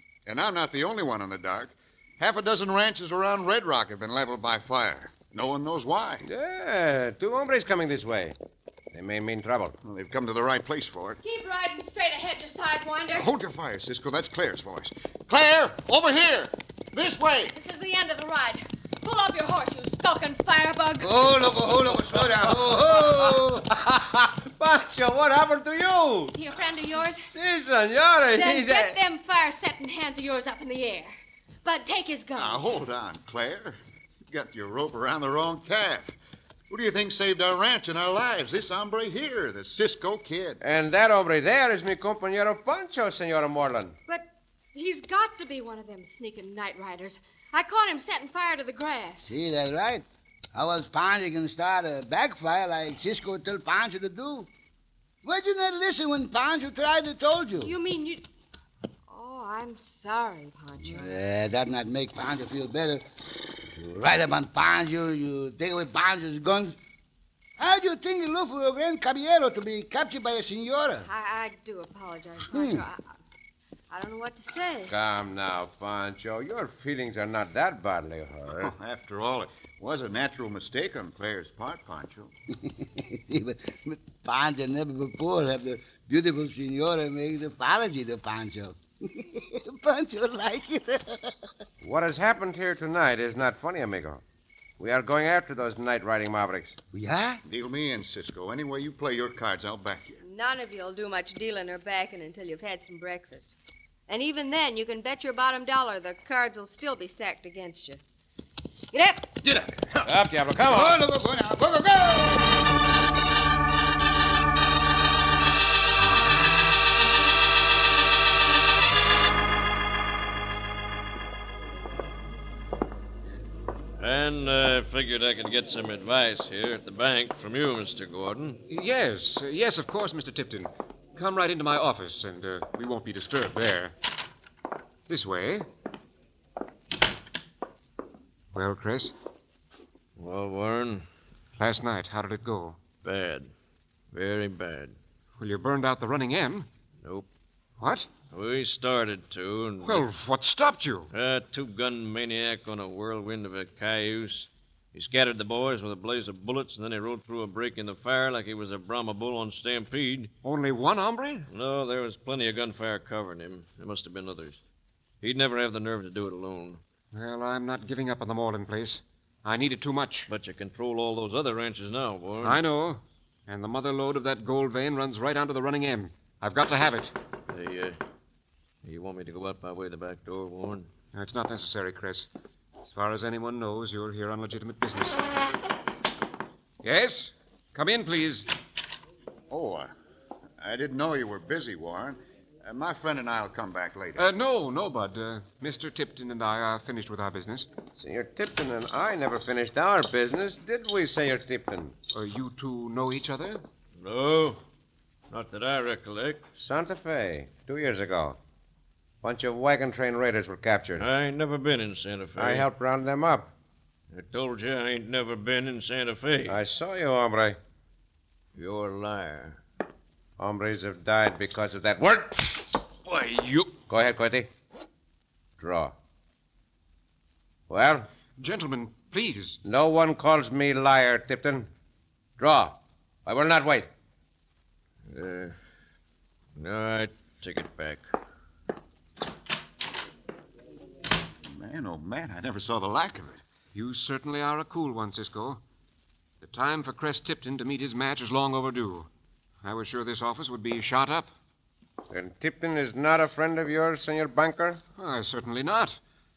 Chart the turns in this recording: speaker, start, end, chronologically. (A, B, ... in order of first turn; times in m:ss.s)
0:00.3-0:06.2 A
0:06.2-0:08.4 B
0:08.9-0:09.8 B
0:09.8-0:11.2 A
0:11.2-0:13.3 C
0:13.1-0:17.6 A
0:17.5-0:21.4 C
0:21.0-0:23.7 D
0:23.0-0:26.3 B
0:26.3-0:27.3 C
0:27.3-0:29.0 B
0:28.4-0:31.1 C
0:31.6-0:32.7 C
0:32.4-0:33.8 A
0:34.3-0:36.2 A
0:36.7-0:40.6 A
0:40.6-0:44.0 B
0:44.1-0:49.3 C
0:49.3-0:54.5 D
0:55.2-0:57.7 D
0:57.6-0:58.2 C
0:59.1-1:01.2 C
1:00.8-1:03.0 D
1:03.7-1:06.8 D
1:07.6-1:11.1 D
1:11.0-1:13.1 C
1:12.5-1:12.8 D
1:13.9-1:14.9 C
1:14.9-1:18.7 B
1:18.5-1:22.3 A
1:22.6-1:31.5 D
1:31.8-1:34.2 B
1:34.8-1:36.8 B
1:36.9-1:37.4 D
1:37.4-1:40.2 A
1:40.2-1:43.6 C
1:44.1-1:48.0 C
1:48.9-1:49.3 C
1:49.4-1:50.1 A
1:50.0-1:51.0 B
1:50.6-1:52.5 D
2:04.0-2:08.6 E
2:08.7-2:13.9 F
2:15.1-2:15.7 F
2:18.5-2:19.1 F
2:20.2-2:21.1 E
2:21.6-2:22.8 F
2:23.0-2:23.5 E
2:24.1-2:25.0 E
2:25.4-2:26.7 F
2:27.0-2:27.3 E
2:27.8-2:28.1 F
2:28.3-2:30.1 E
2:29.8-2:31.1 F
2:31.1-2:40.3 E
2:40.4-2:41.5 F
2:41.5-2:44.6 E
2:45.2-2:46.8 E
2:47.1-2:50.3 F
2:50.3-2:52.6 E
2:52.4-2:57.1 F
2:57.5-2:58.0 E
2:58.8-3:00.9 E
3:01.1-3:02.3 F
3:02.9-3:05.2 F
3:06.8-3:08.5 F
3:09.5-3:09.9 A
3:10.6-3:14.3 A
3:14.2-3:17.7 F
3:18.0-3:22.0 B
3:22.1-3:23.6 F
3:24.0-3:24.6 E
3:25.3-3:26.4 E
3:26.6-3:28.4 B
3:29.2-3:31.1 B
3:31.0-3:32.7 E
3:32.4-3:33.5 B
3:34.1-3:36.6 E
3:36.5-3:37.6 B
3:38.6-3:39.6 E
3:40.4-3:42.7 B
3:43.1-3:43.7 F
3:43.9-3:44.5 B
3:45.6-3:45.9 B
3:47.7-3:48.1 B
3:48.4-3:49.6 F
3:49.6-3:51.7 B
3:52.4-3:53.9 B
3:55.1-3:55.6 E
3:56.6-3:58.0 E
4:01.5-4:03.4 A
4:03.7-4:05.6 F
4:06.4-4:09.1 F
4:09.6-4:11.3 F
4:12.1-4:14.8 B
4:15.0-4:16.0 F